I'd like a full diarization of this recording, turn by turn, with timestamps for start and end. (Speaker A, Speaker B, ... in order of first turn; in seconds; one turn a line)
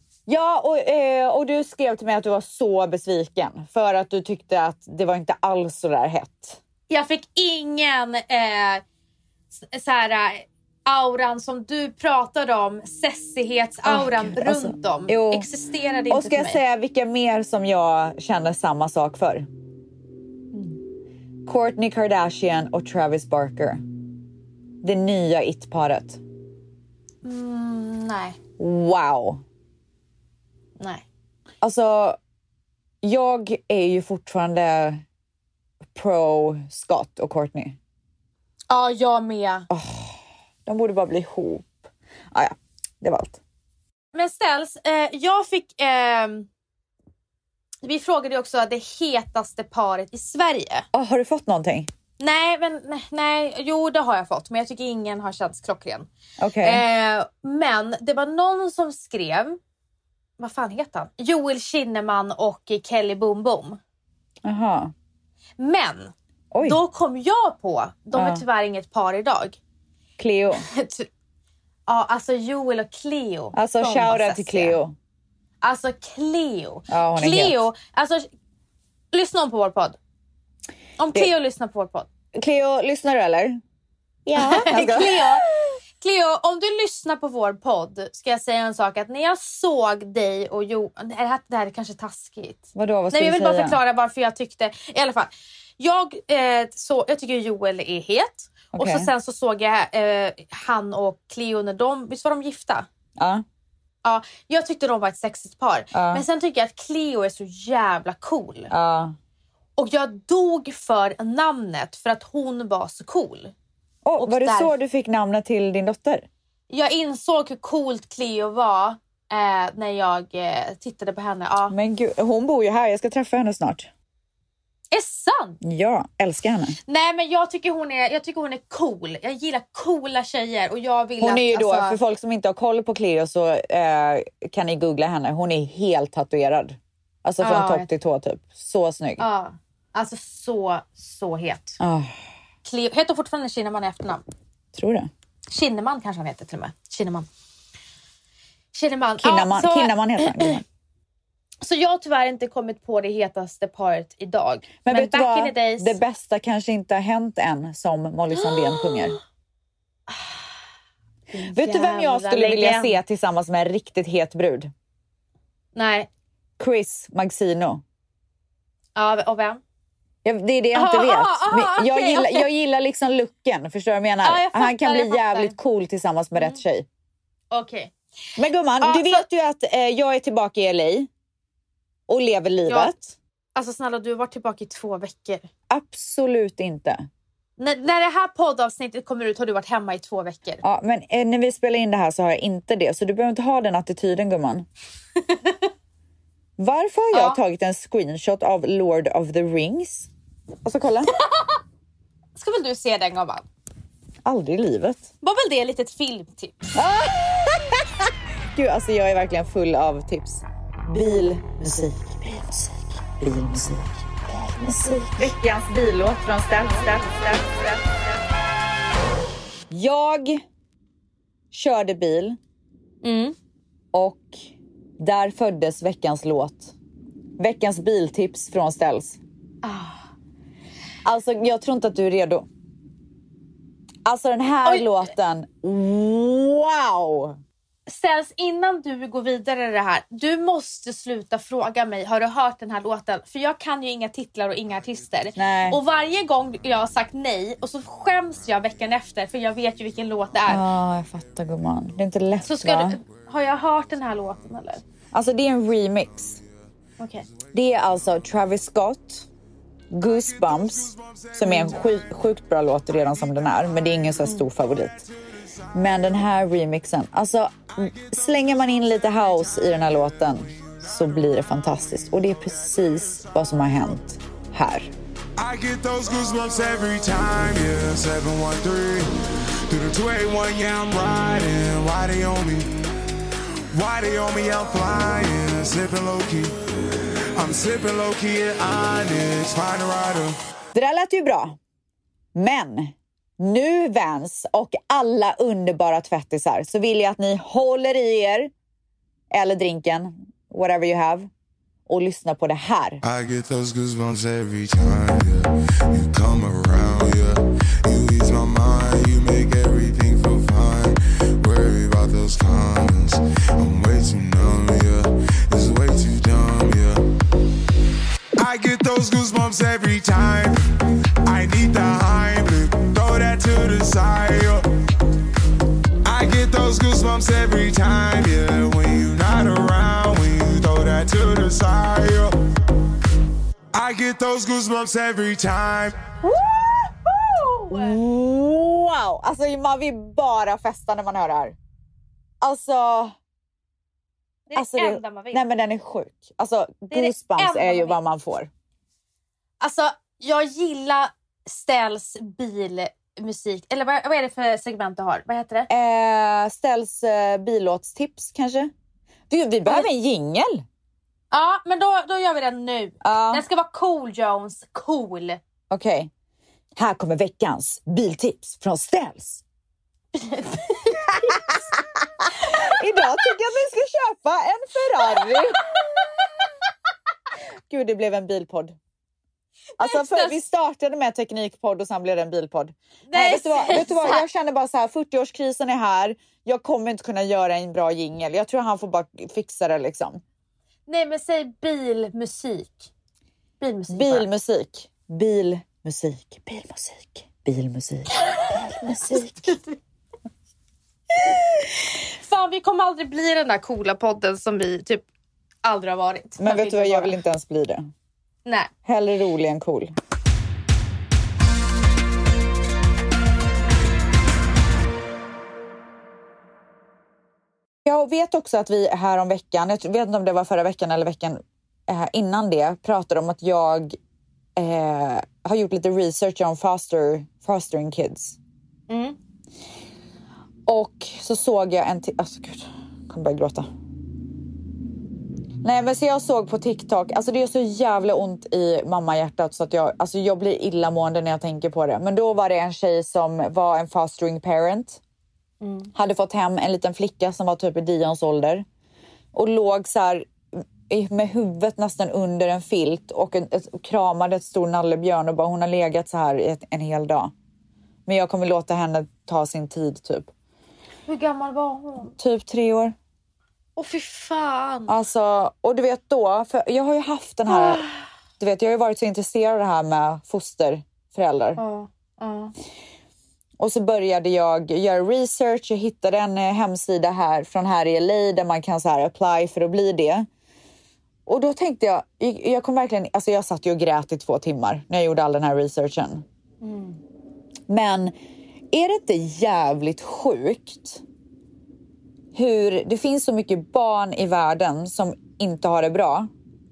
Speaker A: 0.3-6.6
Speaker B: 6.9-8.8
Speaker B: 9.5-16.6
Speaker A: 13.9-15.5
Speaker A: 16.1-19.5
Speaker A: 21.4-23.8
Speaker A: 24.8-26.2
Speaker B: 27.2-28.4
Speaker A: 28.6-29.4
Speaker B: 30.8-31.0
Speaker A: 31.6-32.2
Speaker A: 33.0-35.0
Speaker A: 35.9-37.8
Speaker B: 38.7-39.7
Speaker A: 39.7-43.4
Speaker B: 44.1-46.5
Speaker B: 47.8-50.9
Speaker A: 50.9-51.9
Speaker B: 52.2-59.6
Speaker A: 56.4-56.8
Speaker B: 60.4-63.8
Speaker A: 64.4-64.9
Speaker B: 65.6-69.6
Speaker A: 66.5-66.8
Speaker A: 68.1-68.4
Speaker A: 70.2-70.7
Speaker B: 70.5-71.1
Speaker B: 71.9-74.8
Speaker A: 73.5-75.0
Speaker B: 75.6-78.3
Speaker A: 76.9-77.7
Speaker B: 79.1-80.0
Speaker B: 81.0-82.1
Speaker A: 82.4-83.6
Speaker A: 84.3-85.5
Speaker B: 84.4-85.4
Speaker B: 86.0-102.9
Speaker A: 92.8-93.8
Speaker A: 98.7-99.1
Speaker A: 103.2-103.4
Speaker B: 104.0-108.7
Speaker A: 105.9-106.2
Speaker A: 108.7-109.2
Speaker B: 109.8-113.5
Speaker A: 114.0-116.3
Speaker B: 114.2-114.7
Speaker B: 116.7-121.8
Speaker A: 121.7-123.9
Speaker B: 124.9-125.6
Speaker A: 125.6-126.8
Speaker B: 126.9-132.0
Speaker A: 131.2-139.2
Speaker B: 137.4-137.9
Speaker B: 139.2-141.8
Speaker A: 141.8-142.1
Speaker B: 142.6-144.2
Speaker A: 144.8-145.1
Speaker B: 145.5-147.3
Speaker B: 148.7-150.6
Speaker A: 149.2-150.6
Speaker B: 151.6-156.0
Speaker A: 154.8-159.2
Speaker B: 158.3-159.1
Speaker B: 160.1-160.5
Speaker B: 161.3-163.0
Speaker A: 161.5-164.7
Speaker B: 165.8-166.1
Speaker A: 166.6-167.8
Speaker B: 168.9-169.6
Speaker A: 170.2-176.9
Speaker B: 170.7-172.5
Speaker B: 174.2-175.6
Speaker B: 177.5-177.9
Speaker A: 178.4-181.1
Speaker B: 178.8-179.3
Speaker A: 182.1-183.0
Speaker B: 182.7-185.5
Speaker A: 185.7-187.0
Speaker B: 187.6-190.6
Speaker A: 190.6-194.7
Speaker B: 195.2-195.7
Speaker A: 196.6-200.1
Speaker B: 197.1-197.4
Speaker A: 200.7-201.1
Speaker B: 201.1-201.6
Speaker B: 202.4-203.5
Speaker A: 204.2-205.1
Speaker B: 205.2-206.7
Speaker A: 206.8-217.9
Speaker A: 219.7-220.4
Speaker A: 221.5-222.4
Speaker B: 223.0-223.4
Speaker A: 223.9-224.4
Speaker A: 225.0-226.8
Speaker A: 227.4-229.2
Speaker B: 229.6-230.1
Speaker A: 231.1-232.5
Speaker A: 234.1-237.4
Speaker B: 237.9-250.7
Speaker A: 245.4-245.8
Speaker A: 250.5-253.0
Speaker B: 252.4-254.8
Speaker A: 255.1-256.4
Speaker B: 257.0-257.3
Speaker A: 257.5-259.3
Speaker A: 259.9-265.1
Speaker C: 260.5-261.3
Speaker B: 261.4-261.8
Speaker B: 264.2-264.5
Speaker C: 265.1-265.6
Speaker A: 265.7-274.9
Speaker C: 275.4-282.7
Speaker C: 283.7-286.6
Speaker C: 287.3-290.4
Speaker A: 290.8-291.6
Speaker A: 292.4-298.5
Speaker A: 299.3-301.3
Speaker A: 301.9-303.0
Speaker C: 303.0-317.1
Speaker C: 318.4-320.7
Speaker C: 321.2-324.7
Speaker C: 326.0-332.4
Speaker C: 333.7-336.0
Speaker A: 336.3-336.9
Speaker B: 337.1-338.0
Speaker A: 337.7-341.6
Speaker A: 342.4-343.1
Speaker B: 344.5-345.4
Speaker A: 344.5-348.5
Speaker B: 346.9-348.0
Speaker B: 349.6-355.7
Speaker A: 355.7-358.7
Speaker A: 359.3-360.6
Speaker B: 361.3-365.4
Speaker A: 363.0-363.4
Speaker A: 365.7-366.1
Speaker A: 366.8-369.4
Speaker B: 370.1-371.6
Speaker A: 372.2-375.6
Speaker B: 375.1-376.1
Speaker A: 377.7-378.8
Speaker A: 379.8-390.2
Speaker B: 379.8-380.4
Speaker B: 383.1-384.3
Speaker B: 390.9-392.9
Speaker B: 393.6-394.3
Speaker A: 393.9-399.5
Speaker B: 398.2-399.8
Speaker B: 401.2-405.1
Speaker B: 405.6-407.2
Speaker A: 406.4-407.9
Speaker B: 408.4-408.7
Speaker A: 408.9-409.9
Speaker A: 417.9-424.0
Speaker A: 424.6-428.4
Speaker B: 428.9-429.2
Speaker A: 430.7-433.7
Speaker A: 435.6-445.0
Speaker B: 445.6-445.9
Speaker A: 445.9-448.7
Speaker A: 449.3-457.3
Speaker A: 458.1-460.3
Speaker B: 461.1-462.1
Speaker A: 462.2-462.9
Speaker B: 463.8-465.0
Speaker A: 464.9-467.8
Speaker B: 467.5-468.0
Speaker A: 468.4-471.6
Speaker B: 471.6-472.5
Speaker A: 473.6-480.3
Speaker A: 481.3-486.2
Speaker B: 486.6-487.0
Speaker A: 487.7-488.1
Speaker A: 488.7-491.0
Speaker A: 492.3-496.3